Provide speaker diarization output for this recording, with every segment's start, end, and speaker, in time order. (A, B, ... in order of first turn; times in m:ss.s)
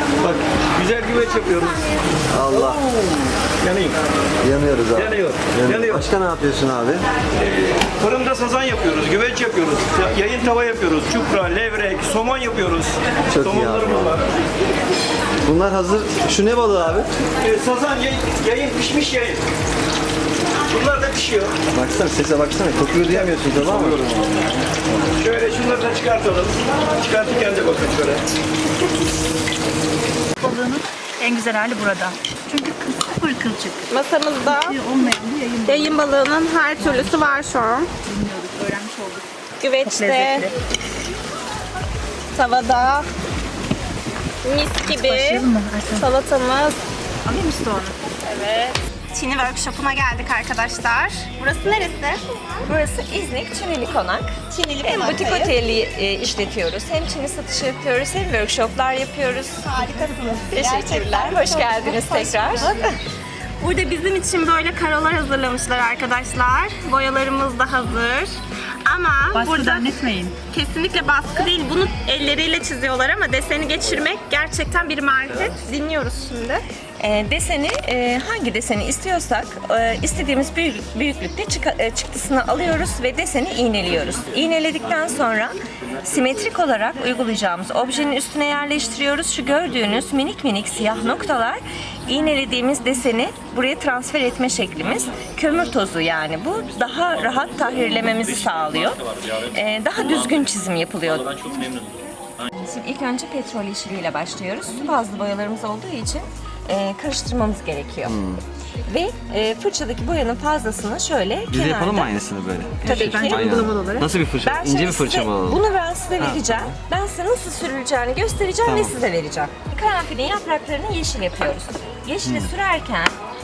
0:00.2-0:01.8 A
0:02.3-0:02.8 B
0:02.4-0:04.0 A
0:04.4-0:07.0 B
0:04.9-0:06.1 A
0:07.4-0:14.2 A
0:13.3-0:14.2 B
0:15.4-0:17.1 B
0:17.4-0:19.4 A
0:20.7-0:21.5 A
0:21.7-0:24.1 B
0:23.0-0:24.1 A
0:25.1-0:28.2 A
0:30.4-0:33.8 C
0:33.9-0:34.8 D
0:34.4-0:36.0 C
0:35.7-0:37.9 D
0:36.8-0:37.4 C
0:38.0-0:39.3 C
0:39.6-0:40.5 D
0:39.8-0:40.5 C
0:42.3-0:43.1 D
0:44.4-0:46.8 D
0:44.8-0:46.1 C
0:47.2-0:48.0 C
0:48.2-0:52.2 D
0:52.6-1:00.0 E
0:54.5-0:55.6 D
0:59.6-1:02.9 D
1:00.5-1:02.8 E
1:03.6-1:08.4 D
1:08.9-1:16.6 D
1:09.3-1:10.4 C
1:17.0-1:41.7 E
1:42.6-1:48.2 E
1:48.0-1:48.4 B
1:48.9-1:52.1 E
1:51.5-1:55.6 B
1:52.8-1:53.7 E
1:52.8-1:54.2 C
1:54.4-2:03.1 E
1:56.2-1:56.8 B
1:58.6-1:59.0 B
2:02.2-2:02.5 B